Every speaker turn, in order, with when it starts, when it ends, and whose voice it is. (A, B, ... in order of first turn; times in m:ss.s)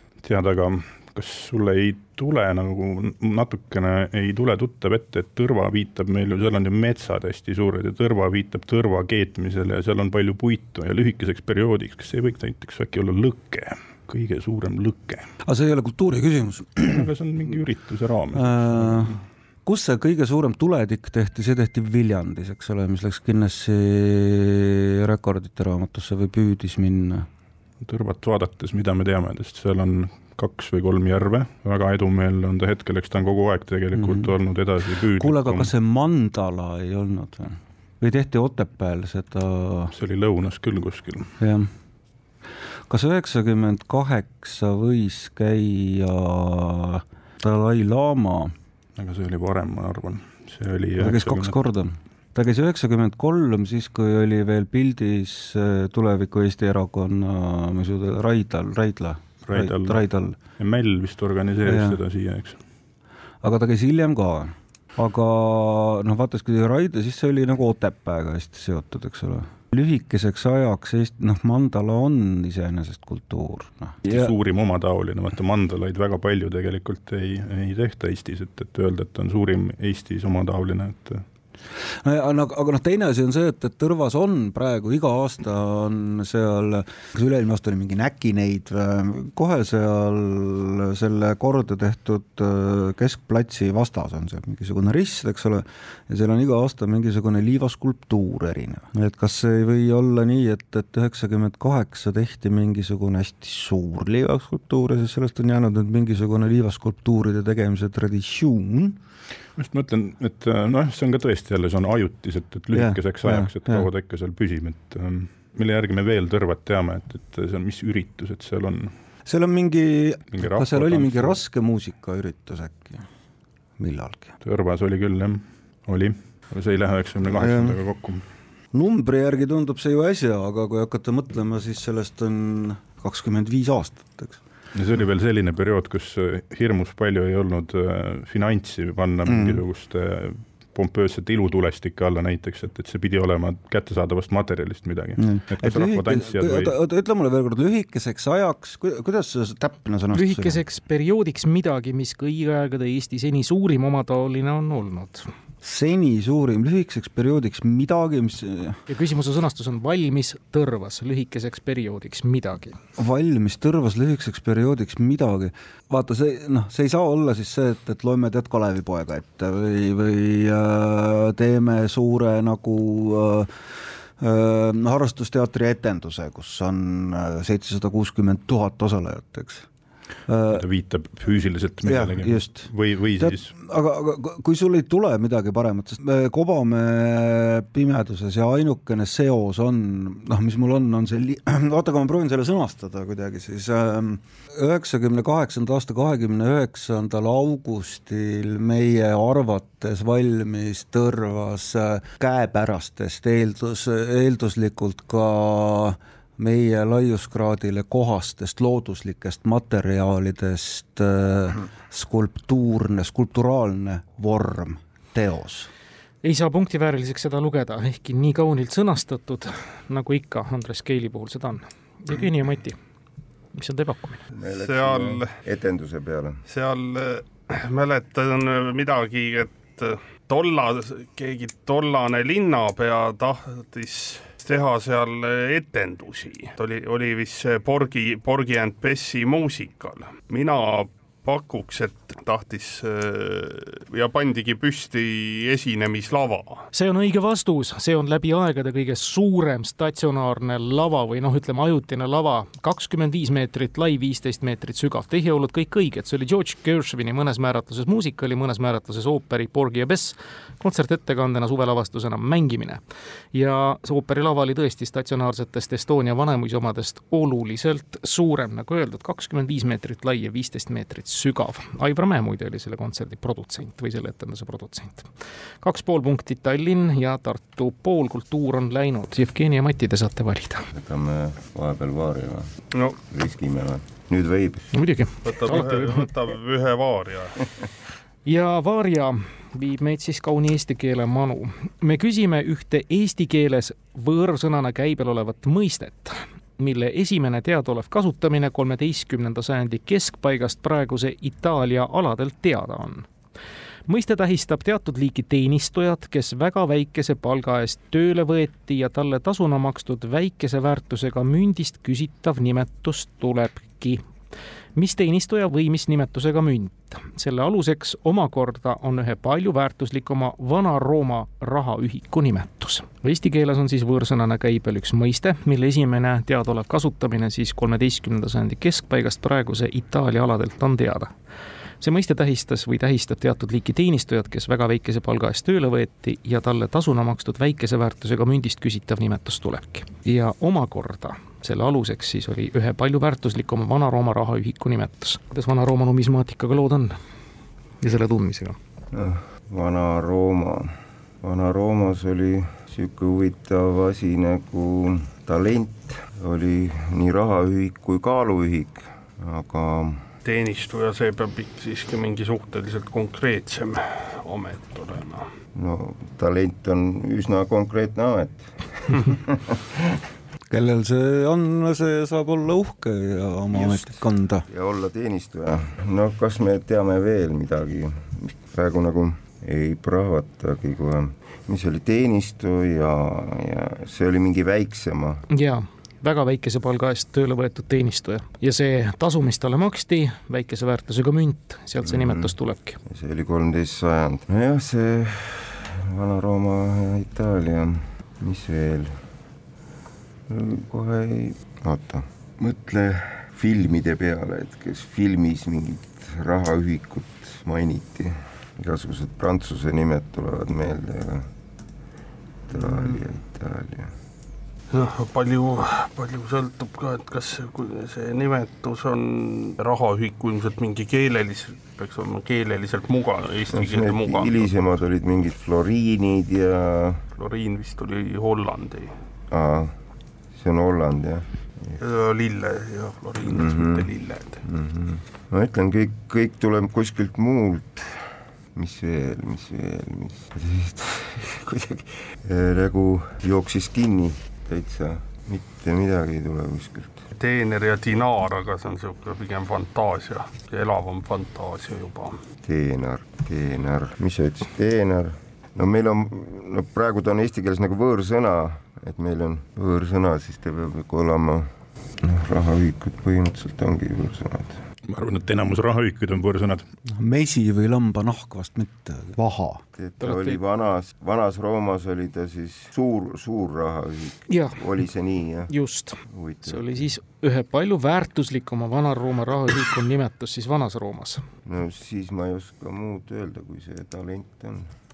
0:00.2-0:15.3 A
0:15.4-0:17.1 B
0:16.8-0:19.2 A
0:18.3-0:27.3 B
0:27.8-0:35.7 A
0:34.0-0:34.3 B
0:35.2-0:39.9 B
0:39.9-0:41.3 A
0:41.4-0:41.7 B
0:42.9-0:48.5 B
0:49.0-0:51.6 A
0:51.0-1:00.4 B
0:59.4-1:00.0 A
1:00.6-1:02.6 A
1:01.6-1:02.0 B
1:03.4-1:14.3 B
1:14.1-1:21.2 A
1:22.0-1:49.0 B
1:49.6-1:58.9 A
1:52.7-1:53.9 B
1:59.3-2:03.0 B
2:00.3-2:01.4 A
2:03.8-2:04.3 B
2:04.4-2:08.3 A
2:07.2-2:07.8 B
2:08.7-2:14.4 B
2:14.8-2:26.7 A
2:19.2-2:19.6 B
2:25.2-2:30.6 B
2:30.1-2:35.3 C
2:35.6-2:38.8 B
2:38.9-2:42.8 C
2:43.0-2:59.7 B
3:00.3-3:00.6 B
3:00.5-3:03.5 A
3:01.8-3:35.7 B
3:36.2-3:42.8 C
3:43.5-3:44.2 C
3:44.4-3:46.4 D
3:44.6-3:45.3 E
3:46.5-4:06.6 E
4:06.7-4:22.8 C
4:23.3-4:35.1 C
4:35.6-4:40.6 C
4:40.7-4:44.7 D
4:44.7-4:46.1 C
4:45.2-4:47.4 E
4:48.3-5:03.1 C
5:03.9-5:14.0 C
5:14.8-5:31.1 C
5:31.8-5:47.0 C
5:47.8-5:48.6 C
5:48.9-6:00.0 D
6:00.2-6:05.3 E
6:05.6-6:10.0 D
6:10.5-6:14.5 B
6:13.5-6:13.9 D
6:14.5-6:25.2 D
6:25.3-6:32.8 C
6:31.8-6:32.3 D
6:32.9-6:38.9 D
6:40.3-6:51.3 D
6:52.5-6:53.9 D
6:54.7-7:04.5 E
7:03.5-7:07.0 D
7:07.2-7:08.9 E
7:09.3-7:09.7 D
7:10.3-7:11.8 D
7:11.8-7:14.4 E
7:13.2-7:18.0 D
7:18.6-7:27.1 D
7:27.2-7:32.2 E
7:32.4-7:41.5 D
7:42.0-7:44.6 D
7:44.9-7:46.6 A
7:46.9-7:49.6 B
7:49.8-7:55.5 D
7:50.0-7:50.4 C
7:54.3-7:54.6 C
7:55.5-8:01.2 C
7:56.1-7:56.7 D
8:01.4-8:04.7 D